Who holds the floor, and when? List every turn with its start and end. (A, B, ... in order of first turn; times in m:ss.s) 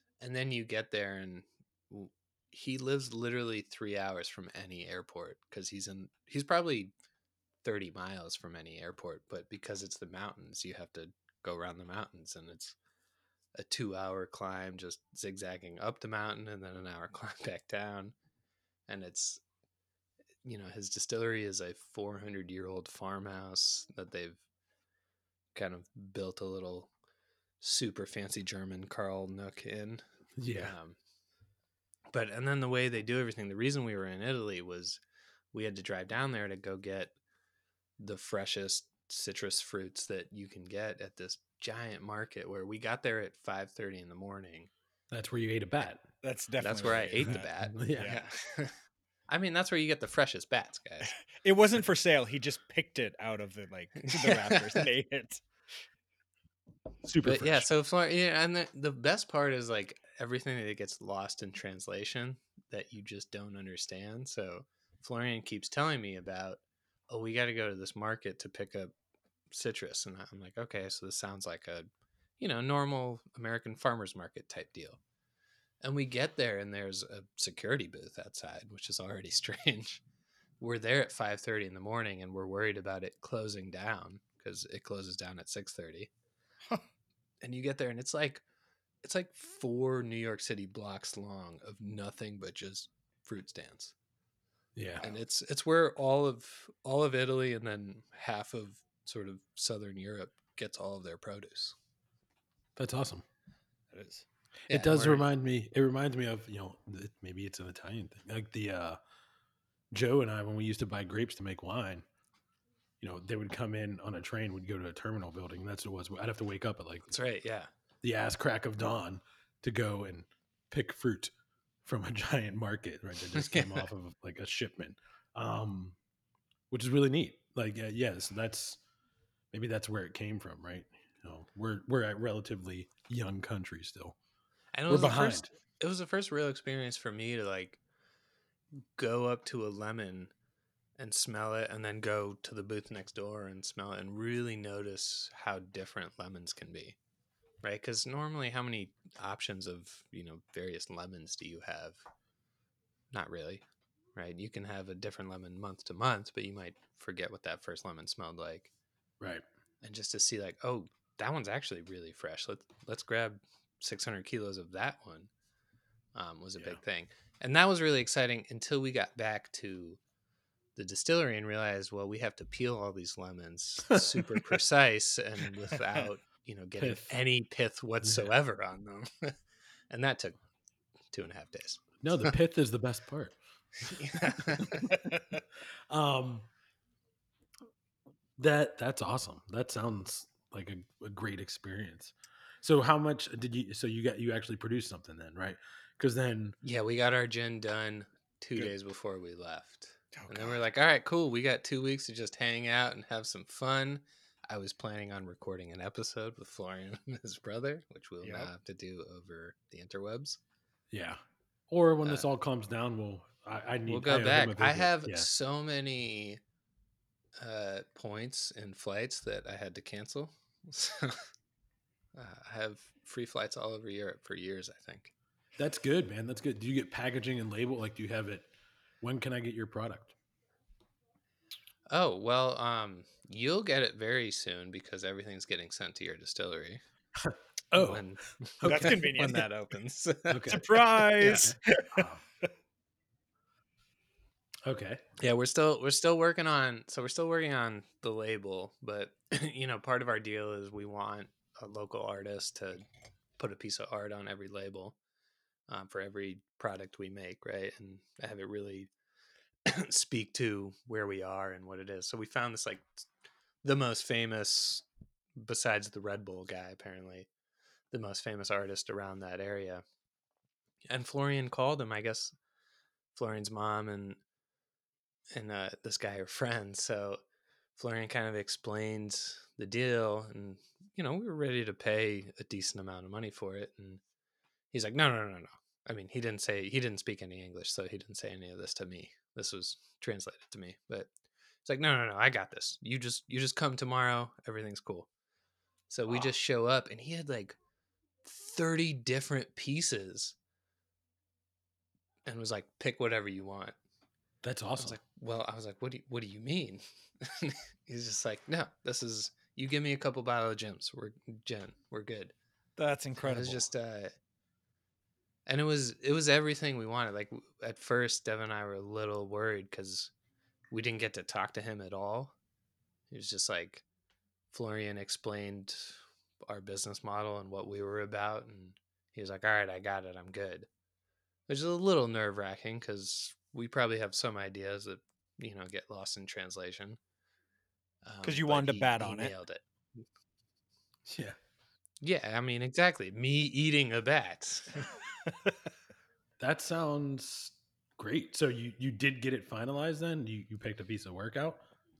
0:00.2-0:06.9 A
0:07.6-0:12.8 A
0:13.5-0:18.1 A
0:18.9-0:19.4 A
0:20.4-0:24.4 A
0:25.5-0:26.9 A
0:27.6-0:31.0 A
0:30.4-0:30.7 B
0:32.1-0:35.0 A
0:35.5-0:37.1 A
0:38.0-0:44.7 A
0:45.1-0:46.0 B
0:46.2-0:48.2 C
0:46.6-0:48.7 A
0:47.2-0:48.1 B
0:49.3-0:51.1 A
0:51.4-0:55.4 C
0:54.1-0:54.8 A
0:57.0-0:57.7 B
0:57.2-1:08.9 A
1:09.5-1:11.9 A
1:12.4-1:15.0 A
1:15.8-1:20.0 A
1:20.6-1:26.1 A
1:27.4-1:28.4 A
1:29.0-1:33.9 A
1:34.8-1:35.1 B
1:35.0-1:41.8 A
1:42.8-1:43.2 B
1:43.9-1:44.2 C
1:44.7-1:45.3 A
1:44.7-1:49.0 B
1:49.9-1:52.0 B
1:53.0-1:57.1 B
1:57.1-1:57.7 A
1:58.0-2:01.3 B
2:01.8-2:06.0 B
2:03.3-2:03.8 A
2:06.7-2:08.8 B
2:09.5-2:14.2 B
2:14.7-2:17.8 A
2:14.9-2:15.5 B
2:18.9-2:20.3 A
2:21.0-2:27.0 A
2:27.6-2:32.0 A
2:33.1-2:33.6 A
2:34.1-2:38.7 A
2:39.8-2:45.3 A
2:46.1-2:50.0 A
2:50.8-2:59.4 A
2:53.9-2:54.4 B
2:56.8-2:57.1 B
2:58.0-2:58.3 B
2:59.9-3:00.4 A
3:01.1-3:02.3 A
3:02.0-3:03.4 B
3:03.8-3:04.9 A
3:04.6-3:04.9 B
3:05.1-3:05.4 C
3:05.9-3:06.5 B
3:08.4-3:16.6 B
3:16.6-3:30.4 A
3:20.1-3:20.6 C
3:28.2-3:28.5 C
3:30.9-3:35.3 B
3:33.9-3:36.4 A
3:37.4-3:41.3 A
3:42.1-3:45.1 A
3:45.6-3:48.5 B
3:49.0-3:50.1 B
3:51.9-3:56.8 A
3:57.2-3:58.0 B
3:57.7-4:01.4 A
3:58.6-3:59.0 B
3:58.6-3:59.4 C
4:00.3-4:00.6 B
4:00.5-4:02.0 C
4:01.2-4:02.2 B
4:04.6-4:05.0 B
4:05.2-4:12.8 A
4:13.4-4:15.0 A
4:15.7-4:18.9 A
4:19.6-4:23.0 A
4:23.6-4:27.3 A
4:27.9-4:29.8 A
4:30.9-4:32.3 A
4:33.1-4:34.2 A
4:35.3-4:37.2 A
4:37.8-4:44.0 A
4:44.7-4:51.1 A
4:51.6-4:55.1 A
4:55.9-4:57.6 A
4:58.2-5:00.4 A
5:02.2-5:03.8 A
5:04.4-5:05.0 B
5:04.8-5:12.3 A
5:12.8-5:13.6 C
5:13.2-5:14.1 A
5:15.4-5:20.1 A
5:20.7-5:22.3 A
5:23.1-5:23.8 A
5:24.5-5:30.7 A
5:31.5-5:37.0 A
5:38.0-5:40.0 A
5:38.2-5:39.3 C
5:41.1-5:41.4 B
5:42.0-5:44.8 A
5:46.4-5:51.6 B